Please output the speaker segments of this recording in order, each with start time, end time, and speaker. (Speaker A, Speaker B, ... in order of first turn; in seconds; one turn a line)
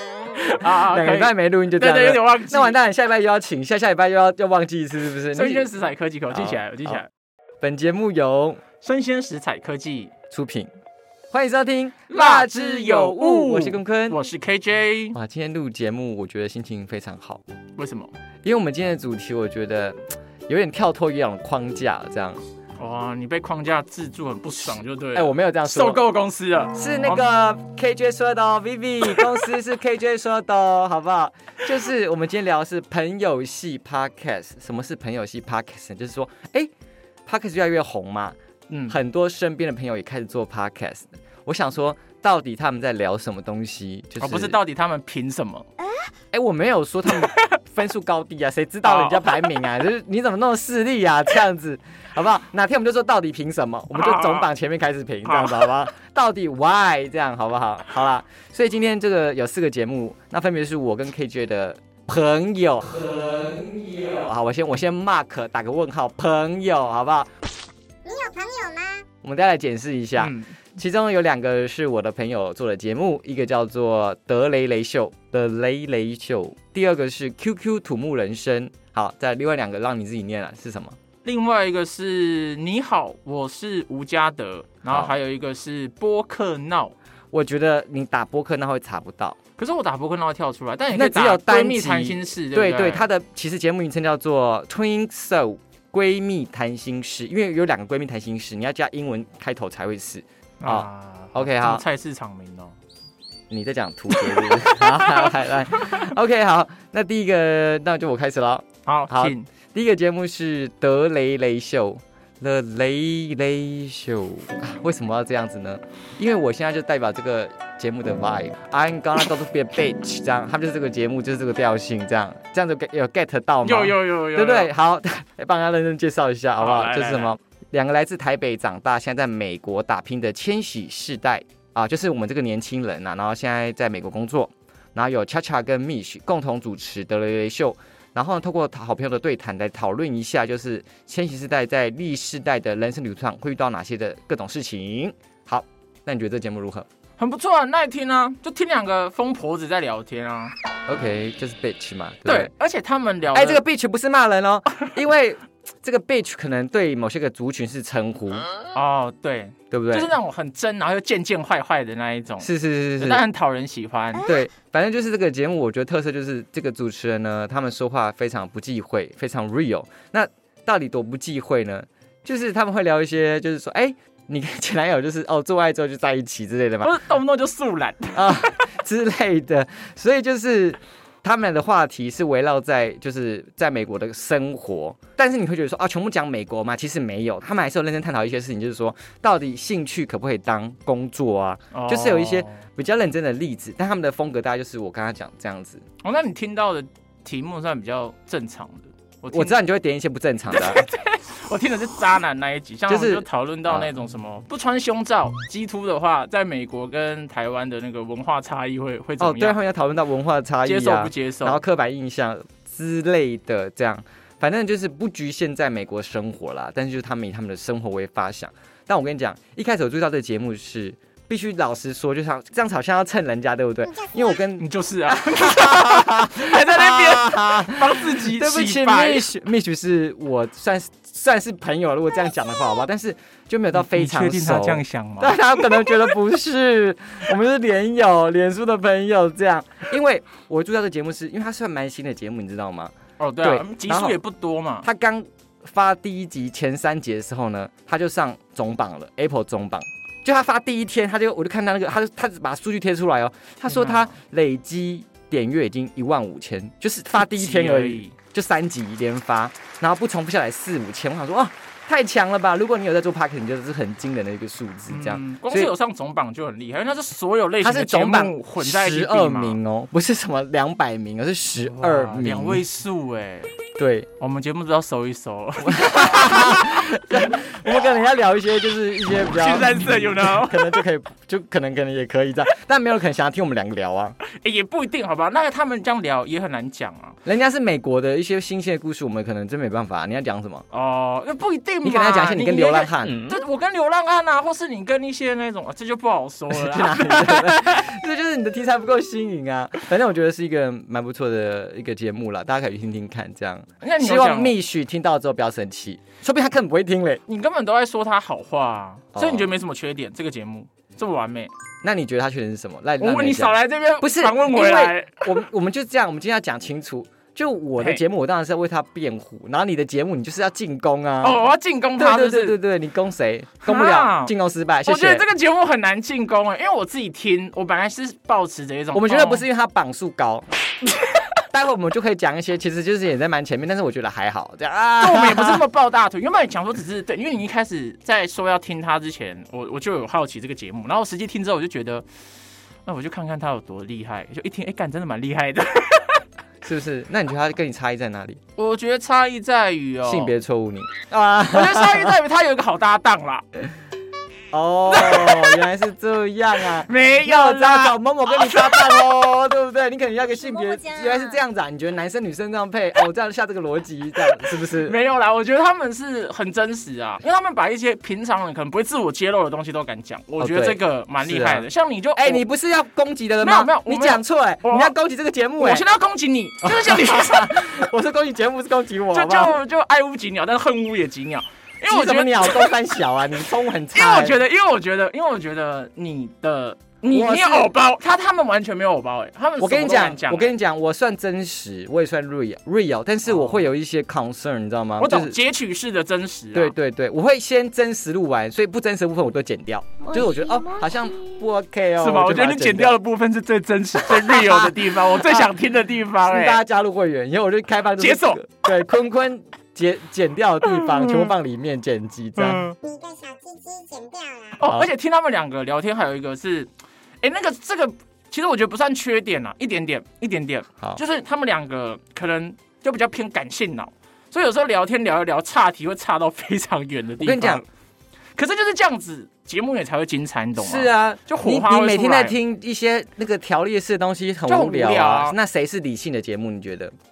Speaker A: 0.4-5.7
Speaker B: 0.5-2.8
Speaker B: 5.3-7.1
Speaker A: 6.3-7.0
Speaker A: 7.6-8.6
Speaker B: 8.8-10.1
Speaker A: 10.3-10.7
Speaker A: 11.3-14.2
Speaker B: 12.1-15.2
Speaker A: 15.1-17.4
Speaker B: 17.8-18.1
Speaker A: 18.4-22.4
Speaker B: 22.8-27.3
Speaker A: 24.7-26.0
Speaker A: 26.7-36.7
Speaker A: 37.2-44.6
Speaker B: 38.7-39.0
Speaker B: 44.2-45.7
Speaker A: 46.3-67.5
Speaker B: 48.8-49.5
Speaker B: 53.9-54.5
Speaker B: 55.2-55.7
Speaker C: 68.0-69.1
Speaker A: 69.2-81.0
Speaker B: 70.2-70.5
Speaker B: 81.2-86.9
Speaker A: 84.9-85.1
Speaker A: 87.3-89.4
Speaker B: 89.6-93.1
Speaker A: 90.9-101.8
Speaker B: 100.6-102.8
Speaker A: 103.5-146.9
Speaker B: 104.1-105.3
Speaker B: 108.8-109.5
Speaker B: 123.6-124.7
Speaker B: 126.6-127.3
Speaker B: 147.2-150.5
Speaker A: 150.9-152.5
Speaker B: 152.2-153.6
Speaker A: 153.3-158.4
Speaker B: 158.7-164.2
Speaker A: 159.7-160.1
Speaker A: 162.4-163.2
Speaker A: 164.2-177.0
Speaker B: 176.8-178.6
Speaker A: 178.1-195.8
Speaker B: 191.7-192.6
Speaker B: 196.0-199.6
Speaker A: 199.3-200.8
Speaker B: 200.5-209.6
Speaker A: 202.9-203.9
Speaker A: 209.2-244.2
Speaker B: 210.6-211.6
Speaker B: 224.6-229.3
Speaker B: 233.7-235.6
Speaker B: 243.2-244.9
Speaker A: 244.8-265.7
Speaker B: 253.7-254.1
Speaker B: 257.2-258.1
Speaker B: 264.9-269.6
Speaker A: 267.6-272.6
Speaker B: 271.7-273.5
Speaker A: 273.8-274.1
Speaker B: 274.2-277.2
Speaker A: 275.6-284.2
Speaker B: 279.3-280.8
Speaker B: 284.2-287.2
Speaker A: 287.2-290.6
Speaker B: 290.7-297.8
Speaker A: 291.8-293.3
Speaker A: 296.5-307.2
Speaker B: 303.8-304.6
Speaker B: 307.3-311.5
Speaker A: 309.1-309.5
Speaker A: 311.8-321.4
Speaker B: 313.0-315.4
Speaker B: 321.2-322.6
Speaker A: 322.0-325.2
Speaker B: 323.6-324.3
Speaker B: 324.8-329.4
Speaker A: 328.9-330.5
Speaker A: 331.5-335.6
Speaker B: 335.0-342.0
Speaker B: 342.9-346.2
Speaker A: 346.6-348.4
Speaker B: 348.6-350.3
Speaker A: 350.0-352.2
Speaker B: 351.5-353.4
Speaker A: 354.5-365.0
Speaker B: 354.9-355.6
Speaker B: 356.8-359.0
Speaker B: 364.7-372.4
Speaker A: 370.4-375.9
Speaker B: 373.4-374.9
Speaker B: 375.6-377.8
Speaker A: 376.6-379.6
Speaker B: 379.1-382.7
Speaker A: 381.8-384.4
Speaker B: 383.9-390.5
Speaker A: 387.1-387.7
Speaker A: 389.6-395.4
Speaker B: 395.0-396.7
Speaker A: 396.5-403.0
Speaker B: 402.0-406.6
Speaker A: 404.1-405.5
Speaker A: 406.2-412.6
Speaker B: 408.0-408.4
Speaker B: 410.9-411.3
Speaker B: 412.4-412.7
Speaker C: 412.8-414.6
Speaker B: 414.6-416.7
Speaker A: 414.6-414.9
Speaker B: 417.2-427.6
Speaker A: 427.2-427.6
Speaker B: 428.4-432.3
Speaker A: 430.6-436.9
Speaker B: 434.4-435.4